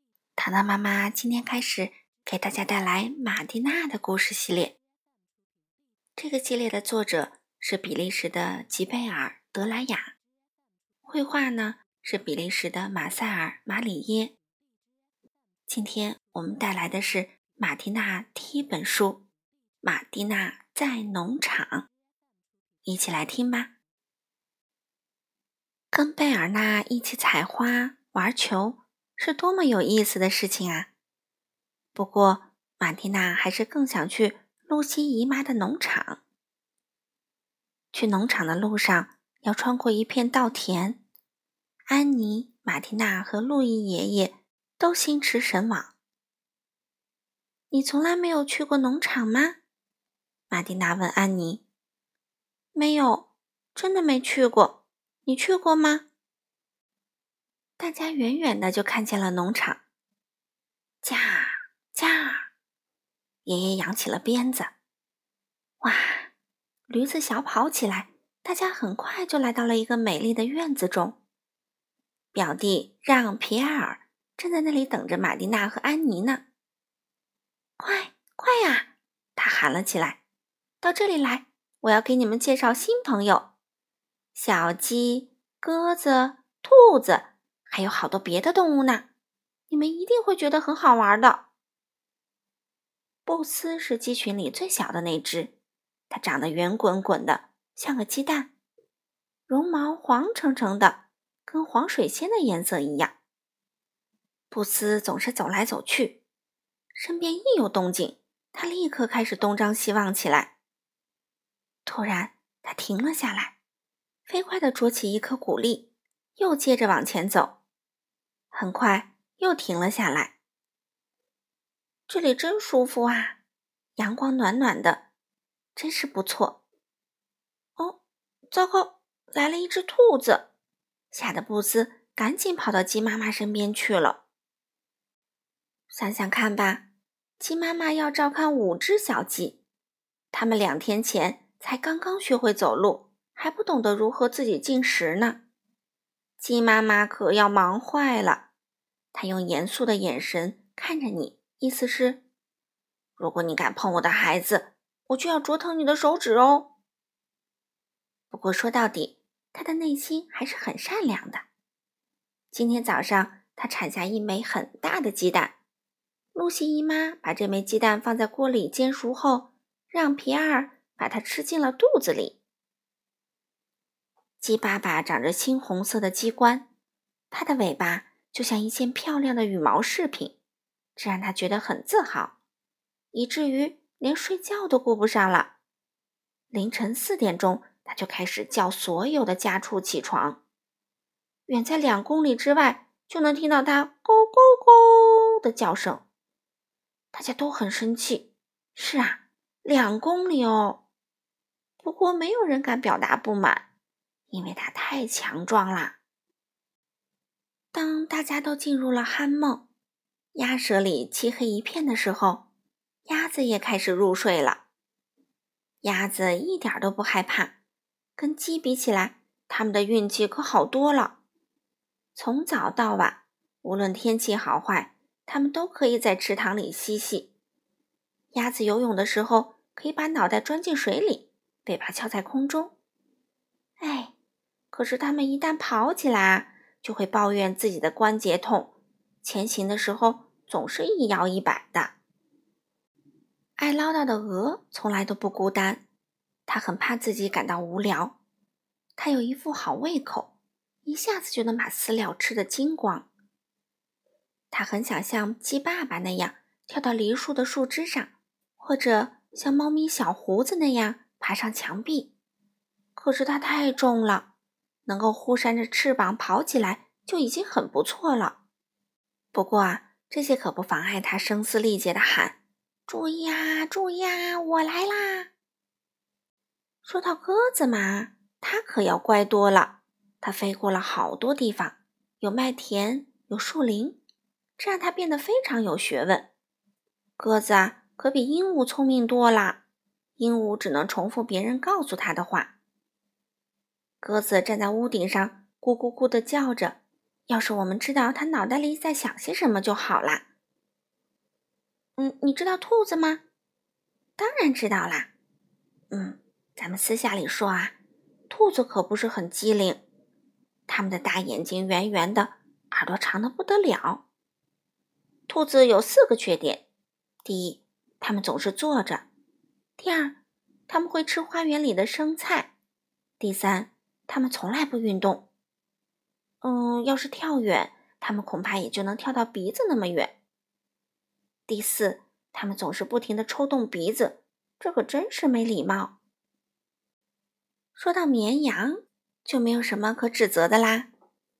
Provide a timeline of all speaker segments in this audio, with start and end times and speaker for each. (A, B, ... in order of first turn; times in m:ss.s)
0:00.4-0:04.7 A
0:06.2-0:10.1 A
0:11.0-0:14.3 A
0:15.7-0:19.2 A
0:19.8-0:21.9 A
0:22.8-0:23.7 A
0:25.9-0:30.9 A
0:32.0-0:36.2 A
0:37.9-0:41.0 A
0:41.9-0:45.9 A
0:47.7-0:49.6 A
0:50.5-0:51.6 A
0:52.7-0:56.1 A
0:57.8-0:59.8 A
1:01.0-1:02.5 A
1:03.4-1:04.7 A
1:05.8-1:06.3 A
1:06.9-1:11.2 A
1:12.3-1:16.4 A
1:17.8-1:20.2 A
1:20.8-1:23.5 A
1:24.3-1:29.1 A
1:29.7-1:31.5 A
1:33.3-1:35.5 A
1:36.1-1:38.5 A
1:39.5-1:43.1 A
1:44.5-1:46.2 A
1:47.0-1:50.5 A
1:51.8-1:53.6 A
1:54.3-1:57.6 A
1:58.5-2:00.4 A
2:02.1-2:03.4 A
2:04.0-2:05.0 A
2:05.8-2:06.6 A
2:08.5-2:10.5 A
2:11.1-2:14.2 A
2:15.9-2:16.8 A
2:17.4-2:19.6 A
2:20.3-2:25.4 A
2:26.4-2:28.5 A
2:29.1-2:32.2 A
2:33.2-2:36.7 A
2:38.3-2:41.4 A
2:42.5-2:45.6 A
2:46.3-2:52.4 A
2:54.4-2:56.7 A
2:57.3-3:00.4 A
3:01.0-3:02.4 A
3:03.1-3:05.5 A
3:06.5-3:10.4 A
3:11.5-3:16.0 A
3:17.1-3:20.8 A
3:21.8-3:23.6 A
3:24.3-3:26.0 A
3:27.7-3:29.6 A
3:30.3-3:32.5 A
3:33.1-3:34.6 A
3:35.8-3:37.5 A
3:38.2-3:41.2 A
3:42.2-3:47.3 A
3:48.3-3:52.7 A
3:53.8-3:54.1 A
3:54.7-4:01.9 A
4:03.6-4:05.8 A
4:06.5-4:08.2 A
4:09.0-4:10.3 A
4:10.8-4:13.1 A
4:14.5-4:22.1 A
4:23.0-4:24.3 A
4:24.9-4:28.4 A
4:29.3-4:32.4 A
4:32.9-4:35.3 A
4:36.8-4:44.0 A
4:44.6-4:46.3 A
4:47.2-4:49.6 A
4:50.2-4:52.5 A
4:54.0-5:00.2 A
5:02.0-5:03.2 A
5:04.2-5:05.1 A
5:05.9-5:07.8 A
5:08.3-5:09.8 A
5:10.7-5:14.0 A
5:15.3-5:16.6 A
5:17.2-5:19.1 A
5:19.8-5:20.2 A
5:20.7-5:22.5 A
5:23.2-5:25.3 A
5:26.4-5:30.1 A
5:31.5-5:36.0 A
5:37.8-5:40.9 A